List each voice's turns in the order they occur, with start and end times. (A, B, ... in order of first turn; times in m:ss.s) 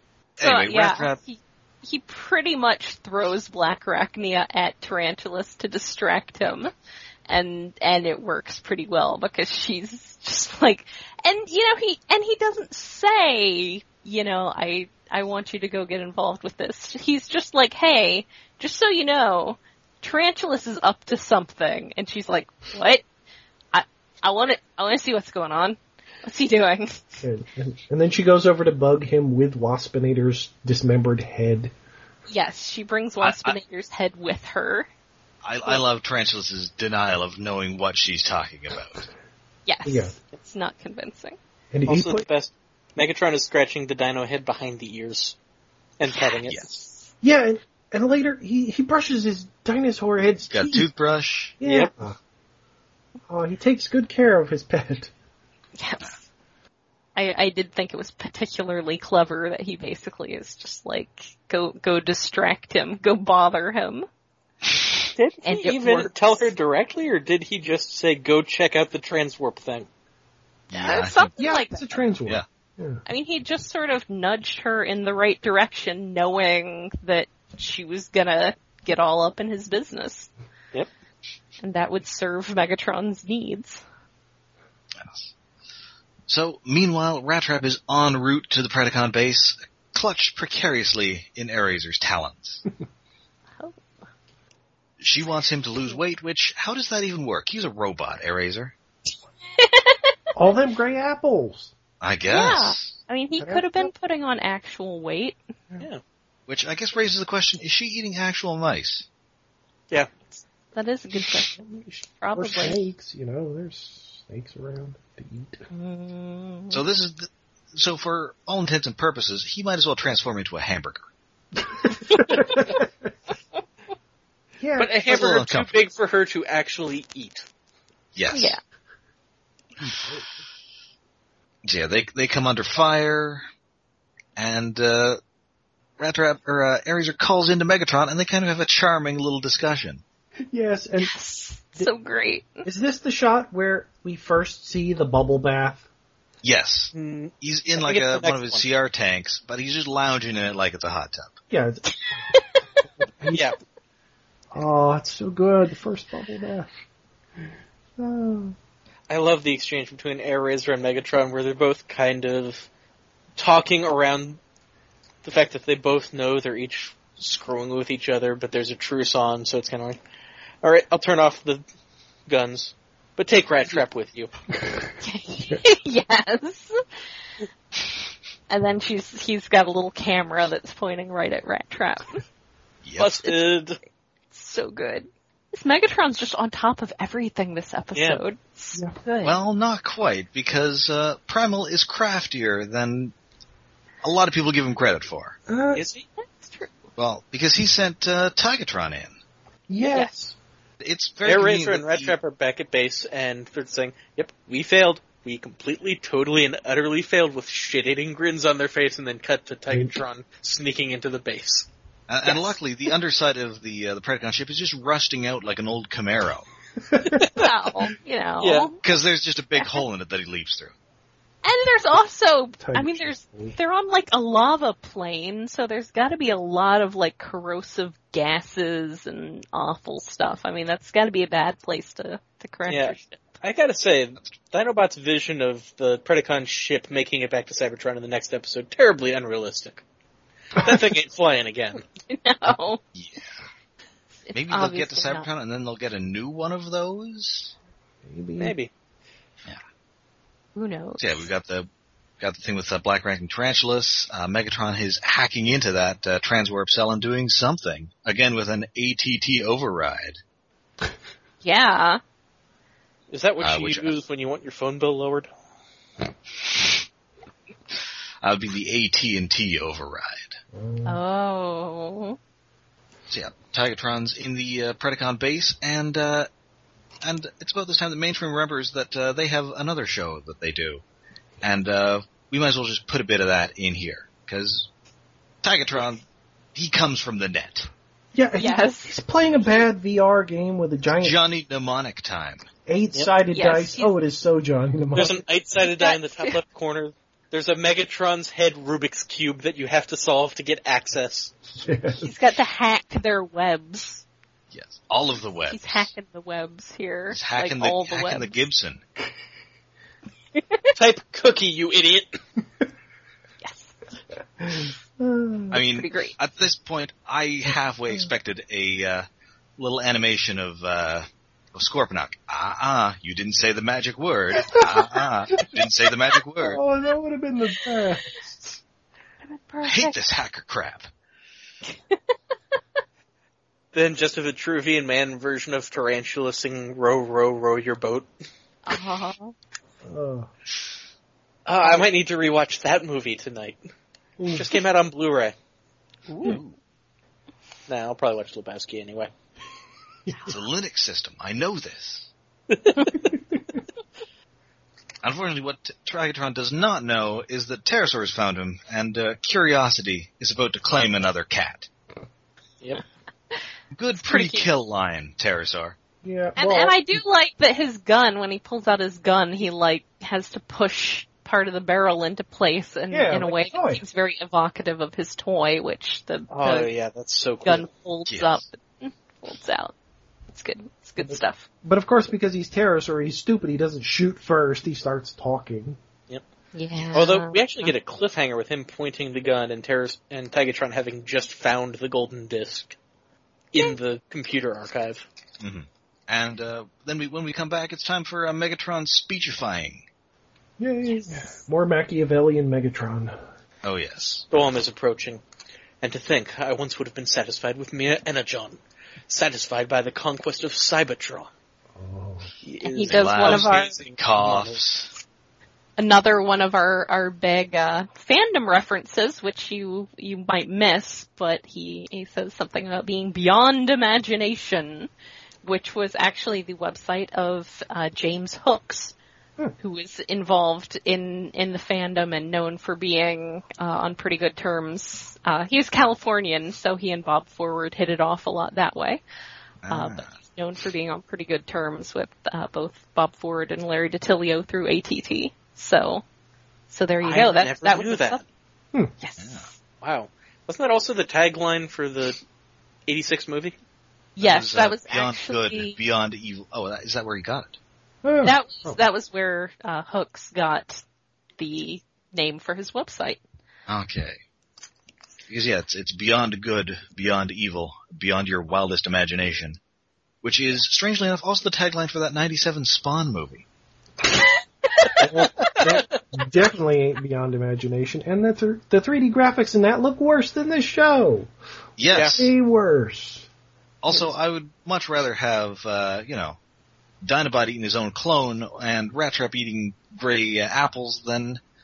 0:00.4-0:01.2 A
0:00.4-0:06.7 B
0:07.3-0:23.0 B
0:23.7-0:27.2 B
0:27.2-0:31.7 C
0:32.3-0:34.9 B
0:33.2-0:33.6 A
0:35.4-0:39.1 A
0:39.6-0:41.4 B
0:39.8-0:40.2 C
0:41.7-0:42.2 C
0:41.9-0:45.4 D
0:46.0-0:46.8 D
0:46.1-0:47.1 B
0:47.2-0:50.9 C
0:50.5-0:51.5 A
0:51.6-0:52.2 C
0:51.6-0:51.9 D
0:53.3-0:55.1 C
0:55.8-0:56.2 B
0:57.2-1:04.1 B
1:05.1-1:09.9 D
1:05.4-1:06.1 B
1:10.7-1:11.3 A
1:10.7-1:12.0 B
1:11.4-1:13.0 C
1:13.0-1:20.3 B
1:21.6-1:23.8 B
1:25.0-1:25.3 A
1:26.3-1:32.6 A
1:35.0-1:38.7 A
1:39.6-1:40.1 B
1:40.3-1:41.7 C
1:42.0-1:42.9 A
1:42.3-1:45.4 B
1:43.4-1:43.9 C
1:46.5-1:49.0 A
1:50.7-1:51.5 B
1:51.5-1:55.6 C
1:52.2-1:52.8 B
1:55.7-1:56.8 B
1:56.7-2:01.1 A
2:01.7-2:02.9 C
2:04.6-2:04.9 C
2:04.8-2:07.4 D
2:05.1-2:05.7 A
2:08.1-2:08.6 A
2:08.3-2:08.6 B
2:09.8-2:10.3 C
2:11.6-2:13.4 A
2:14.4-2:15.2 A
2:16.0-2:20.0 A
2:20.5-2:21.1 C
2:21.0-2:22.6 B
2:22.6-2:25.8 C
2:26.4-2:31.4 A
2:26.9-2:28.6 D
2:31.5-2:31.8 C
2:32.3-2:32.6 B
2:33.2-2:33.5 C
2:34.5-2:36.7 C
2:38.0-2:38.6 C
2:39.1-2:42.7 D
2:43.4-2:44.4 D
2:45.2-2:50.0 D
2:50.6-2:51.6 D
2:52.3-2:54.3 D
2:54.6-2:54.9 C
2:55.0-2:56.8 B
2:58.5-3:02.2 B
3:02.8-3:03.1 A
3:03.0-3:03.8 D
3:04.3-3:09.4 B
3:07.9-3:08.2 D
3:09.2-3:13.1 A
3:14.0-3:15.4 A
3:15.5-3:15.8 C
3:15.7-3:16.0 D
3:16.2-3:16.7 B
3:17.0-3:19.2 A
3:19.7-3:20.3 C
3:20.8-3:22.2 A
3:21.2-3:31.7 D
3:32.1-3:36.4 A
3:36.8-3:37.2 C
3:37.1-3:37.5 D
3:37.4-3:38.8 B
3:38.4-3:38.7 D
3:38.8-3:40.7 A
3:41.4-3:53.2 B
3:42.6-3:43.5 C
3:52.7-3:59.8 D
4:00.5-4:01.8 D
4:02.1-4:02.8 B
4:02.9-4:03.3 A
4:04.3-4:05.3 B
4:04.3-4:07.5 A
4:08.0-4:08.6 C
4:08.4-4:08.7 D
4:10.5-4:11.0 B
4:11.0-4:11.7 A
4:12.2-4:20.2 A
4:21.4-4:22.0 B
4:23.1-4:25.3 D
4:23.4-4:24.0 A
4:28.2-4:30.4 A
4:30.5-4:31.0 C
4:30.8-4:32.2 B
4:33.1-4:36.3 A
4:37.0-4:40.8 A
4:41.4-4:44.7 A
4:45.4-4:46.0 A
4:46.5-4:47.7 A
4:48.1-4:51.2 C
4:48.4-4:48.9 B
4:51.0-4:52.4 A
4:52.7-4:55.2 C
4:53.3-4:53.9 B
4:54.9-5:01.3 D
4:55.6-4:56.4 B
5:01.6-5:02.1 C
5:02.0-5:04.0 B
5:04.5-5:05.9 A
5:05.5-5:08.4 B
5:07.1-5:08.8 A
5:10.3-5:10.6 B
5:10.7-5:12.2 D
5:13.4-5:13.7 B
5:14.4-5:15.5 C
5:15.5-5:19.1 A
5:15.6-5:16.1 B
5:19.6-5:26.6 A
5:26.4-5:28.6 C
5:29.2-5:30.0 B
5:29.6-5:30.9 A
5:31.7-5:32.0 B
5:33.7-5:38.1 D
5:38.6-5:39.3 B
5:39.8-5:40.3 C
5:41.4-5:43.6 D
5:44.2-5:44.5 C
5:44.3-5:45.3 D
5:46.2-5:46.6 A
5:47.7-5:49.1 D
5:50.2-5:52.1 A
5:52.5-5:53.1 D
5:55.0-6:01.7 A
6:03.7-6:05.8 A
6:04.0-6:04.5 B
6:06.0-6:07.0 C
6:06.4-6:16.7 B
6:12.9-6:13.8 C
6:16.3-6:17.7 D
6:17.4-6:19.7 B
6:18.1-6:18.4 A
6:20.3-6:21.4 B
6:21.0-6:25.8 C
6:26.5-6:27.7 B
6:26.9-6:32.8 D
6:33.5-6:35.0 D
6:35.4-6:39.8 A
6:40.6-6:43.1 C
6:43.6-6:44.2 A
6:44.3-6:45.2 D
6:45.8-6:51.3 D
6:51.7-6:52.3 C
6:52.4-6:54.6 D
6:52.6-6:53.8 B
6:52.8-6:54.9 A
6:55.8-7:04.9 B
7:05.4-7:09.0 B
7:09.6-7:19.0 B
7:19.6-7:20.1 A
7:19.7-7:26.0 B
7:26.7-7:28.2 B
7:27.0-7:28.2 D
7:29.0-7:29.5 B
7:29.2-7:29.5 A
7:29.8-7:32.2 D
7:32.9-7:33.6 D
7:34.2-7:35.8 B
7:34.2-7:37.6 A
7:38.0-7:38.8 C
7:38.2-7:40.8 B
7:41.4-7:43.2 B
7:43.7-7:44.2 A
7:45.3-7:49.6 A
7:50.2-7:53.4 A
7:55.0-8:01.3 C
7:55.4-7:56.0 D
8:01.8-8:02.3 A
8:01.9-8:02.2 D
8:02.1-8:03.3 C
8:03.8-8:06.4 A
8:07.0-8:11.4 A